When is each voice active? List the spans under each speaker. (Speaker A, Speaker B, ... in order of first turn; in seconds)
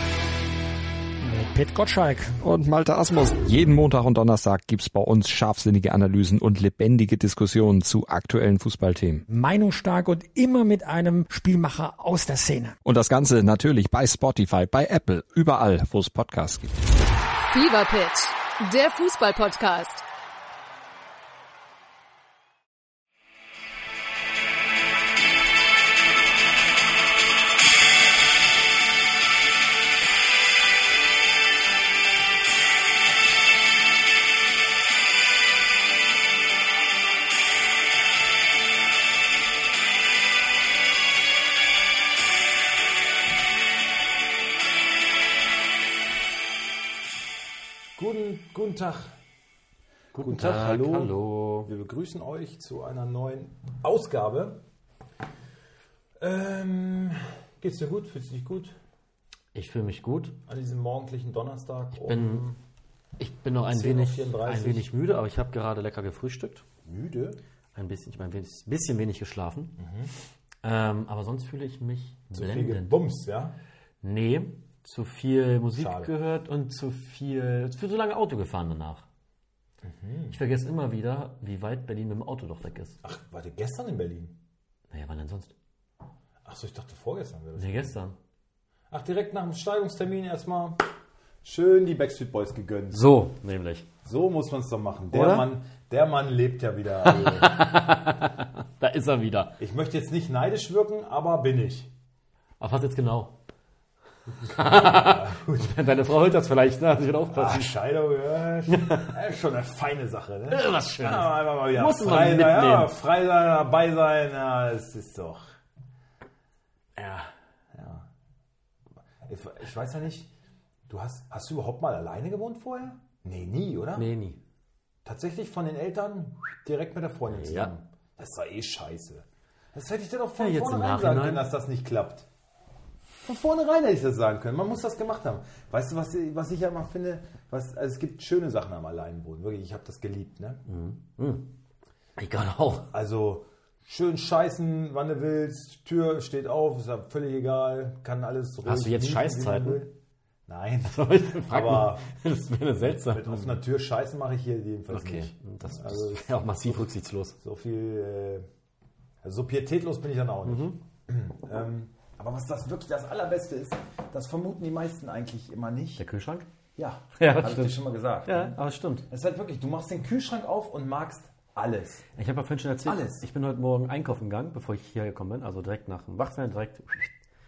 Speaker A: 1.2-2.4, 9.3-12.8
Speaker B: 2.4-9.2, 12.8-16.8
Speaker C: 17.5-20.0
Speaker D: 48.0-49.2, 50.2-51.1, 51.6-54.6, 56.2-58.8, 60.5-62.6, 63.7-64.9, 66.8-67.4, 69.8-70.1, 72.3-73.6, 75.8-76.1, 79.8-80.4, 83.0-84.4, 86.5-88.0, 88.9-90.8, 91.4-93.1, 94.0-97.6, 99.6-101.9, 104.6-105.8, 107.3-115.5, 117.7-118.1, 119.2-120.3, 120.9-124.1, 125.0-132.3, 133.2-140.6, 142.9-149.9, 150.5-152.1, 152.8-156.8, 157.4-158.5, 159.2-166.1, 166.8-168.6, 169.1-172.1, 172.8-173.3
Speaker E: 50.1-51.7, 59.5-60.4, 61.9-62.5, 63.2-66.7, 67.7-69.8, 70.6-73.0, 74.0-79.0, 80.3-83.0, 84.9-85.5, 87.6-88.2, 92.9-93.9, 95.1-95.5, 97.0-99.6, 102.6-103.4, 104.4-107.8, 108.7-109.1, 110.5-112.9, 117.0-117.3, 124.0-124.4, 127.3-127.7, 130.4-131.5, 140.7-141.5, 142.2-142.9, 148.7-149.9, 150.8-153.6, 154.9-157.4, 160.4-160.8, 166.0-166.5, 167.2-169.1, 172.1-177.1